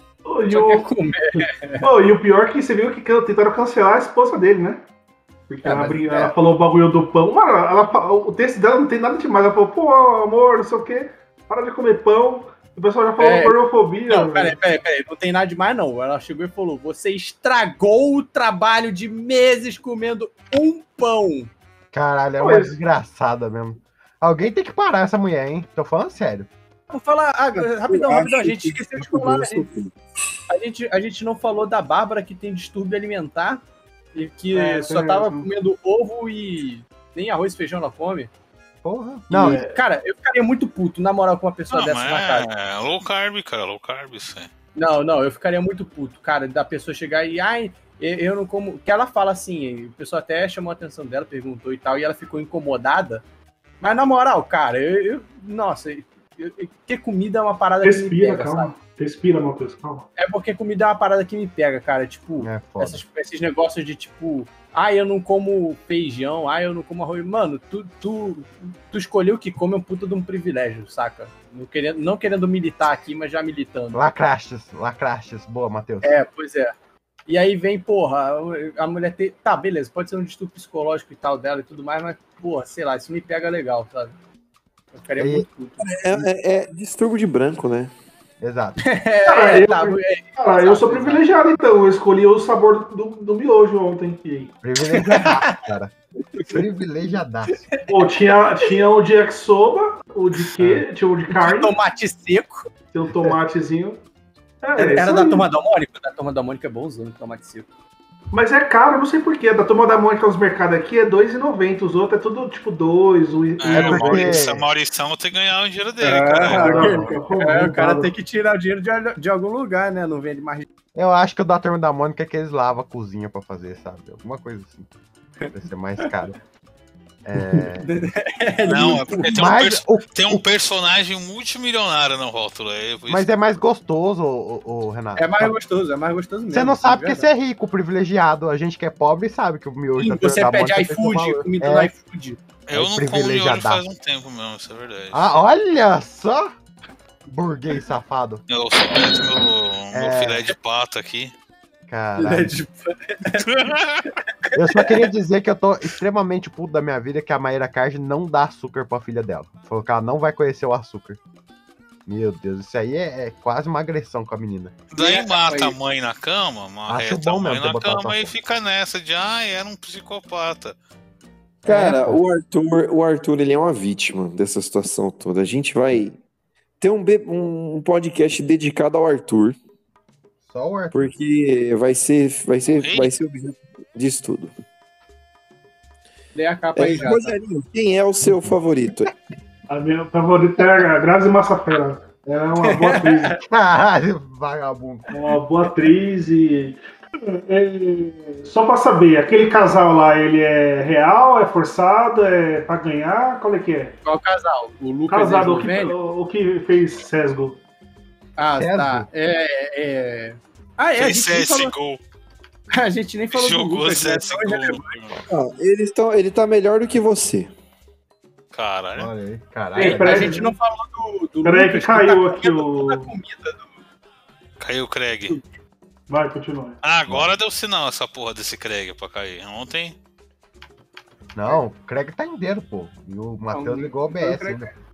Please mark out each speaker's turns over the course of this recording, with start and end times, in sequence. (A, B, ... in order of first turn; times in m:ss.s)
0:00.3-0:04.8 A
0:00.5-0:01.9 B
0:05.5-0:14.6 A
0:05.6-0:06.3 B
0:13.2-0:13.6 B
0:14.1-0:21.5 B
0:21.9-0:26.5 C
0:22.4-0:22.8 A
0:26.9-0:29.7 B
0:27.6-0:29.9 D
0:30.5-0:33.6 B
0:34.2-0:38.3 B
0:34.5-0:35.5 A
0:38.8-0:39.6 C
0:39.3-0:42.5 B
0:39.3-0:39.8 A
0:41.7-0:44.5 E
0:44.8-0:53.2 B
0:53.8-0:58.7 B
0:57.8-1:00.1 A
1:00.2-1:14.0 B
1:02.4-1:03.0 C
1:13.9-1:16.2 C
1:16.0-1:16.7 B
1:17.3-1:24.2 B
1:24.9-1:25.9 B
1:25.2-1:25.5 C
1:25.8-1:27.9 D
1:28.4-1:28.8 C
1:28.8-1:31.2 B
1:29.3-1:34.6 A
1:34.6-1:35.9 C
1:34.9-1:35.6 B
1:36.4-1:37.7 C
1:37.6-1:38.1 B
1:37.9-1:41.7 A
1:40.6-1:40.9 C
1:41.3-1:42.7 B
1:42.9-1:44.0 A
1:44.6-1:45.5 A
1:44.8-1:47.7 B
1:48.3-1:54.4 A
1:53.6-1:56.9 E
1:53.7-1:54.7 C
1:56.0-2:00.7 B
1:56.4-1:58.1 A
1:56.7-1:57.2 C
2:01.0-2:04.9 C
2:05.4-2:06.1 B
2:05.5-2:06.4 C
2:07.2-2:07.9 C
2:07.5-2:09.5 B
2:08.7-2:13.3 E
2:09.2-2:10.4 C
2:13.1-2:15.5 C
2:15.2-2:17.3 B
2:16.5-2:21.9 C
2:20.0-2:22.4 B
2:22.7-2:25.3 E
2:22.7-2:23.8 C
2:25.1-2:26.5 C
2:27.3-2:28.4 C
2:28.5-2:31.3 E
2:29.9-2:30.5 C
2:31.9-2:32.6 C
2:32.2-2:33.5 B
2:33.4-2:34.1 E
2:34.2-2:35.0 B
2:34.6-2:41.2 C
2:42.1-2:44.8 C
2:44.9-2:50.8 E
2:44.9-2:45.8 B
2:46.9-2:48.3 C
2:51.6-2:52.2 C
2:51.6-2:56.2 D
2:56.8-2:59.6 D
3:00.5-3:01.1 C
3:00.9-3:04.5 D
3:02.8-3:03.1 E
3:06.4-3:07.4 B
3:06.8-3:09.1 D
3:09.7-3:13.4 A
3:12.6-3:13.4 B
3:13.4-3:15.1 C
3:15.1-3:24.0 A
3:24.0-3:26.0 B
3:25.1-3:27.6 A
3:28.4-3:31.7 B
3:28.5-3:29.1 C
3:31.0-3:32.0 E
3:32.7-3:34.9 B
3:33.3-3:35.2 E
3:35.3-3:37.5 D
3:38.5-3:39.1 E
3:39.0-3:40.4 C
3:39.8-3:40.5 A
3:39.8-3:43.8 B
3:41.4-3:43.1 A
3:44.6-3:45.4 E
3:46.1-3:46.8 A
3:46.8-3:50.0 E
3:51.4-3:54.7 C
3:53.5-3:54.8 B